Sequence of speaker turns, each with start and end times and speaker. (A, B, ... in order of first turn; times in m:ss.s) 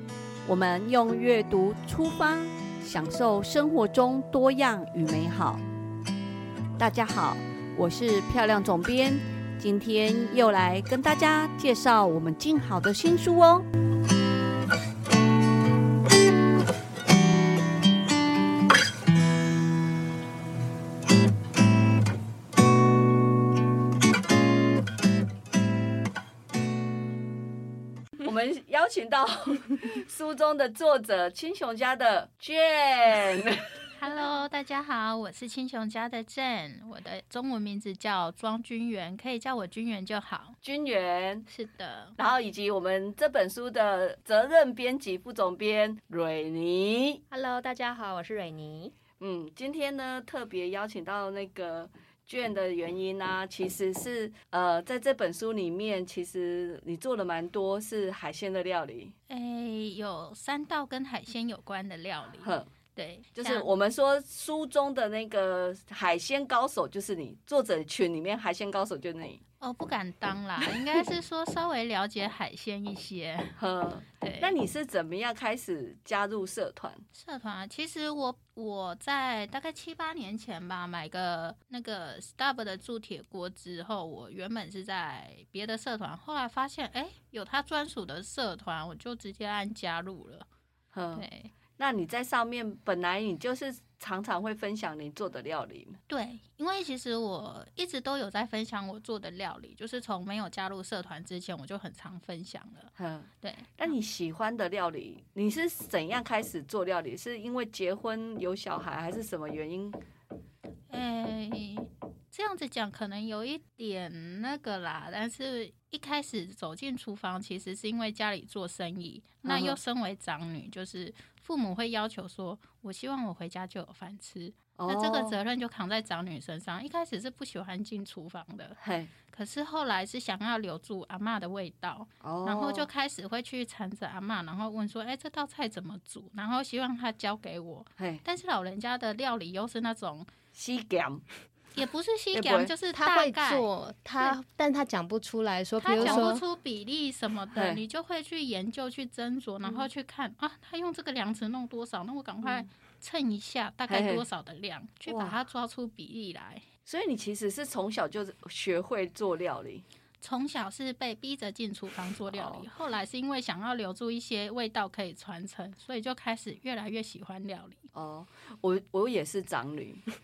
0:00.4-0:05.6 A
0:06.8-0:13.7 A
0:28.2-0:33.6 A
0:33.9-0:40.6 B
0:40.6-0:41.4 A
0:41.5-0:42.2 B
0:42.2-0:47.2 A
0:47.3-0:48.9 C
0:49.2-0:59.1 A
0:59.3-1:03.7 B
1:02.4-1:02.7 A
1:03.4-1:09.4 A
1:09.6-1:13.6 B
1:13.6-1:17.0 A
1:14.2-1:14.5 B
1:17.1-1:30.5 B
1:30.9-1:31.2 A
1:31.1-1:31.5 B
1:31.8-1:36.0 A
1:36.1-1:43.9 B
1:43.0-1:50.0 A
1:50.9-2:08.8 B
1:59.4-1:59.8 A
2:04.8-2:05.4 A
2:08.8-2:09.1 A
2:09.3-2:20.3 B
2:12.2-2:12.9 A
2:20.5-2:21.2 A
2:21.7-2:24.4 B
2:22.3-2:22.7 A
2:22.9-2:26.4 C
2:25.8-2:36.6 B
2:25.9-2:26.3 A
2:27.5-2:27.8 A
2:33.9-2:34.2 A
2:35.1-2:35.4 A
2:36.9-2:39.8 A
2:40.2-2:47.9 B
2:42.3-2:42.7 A
2:47.9-2:50.0 A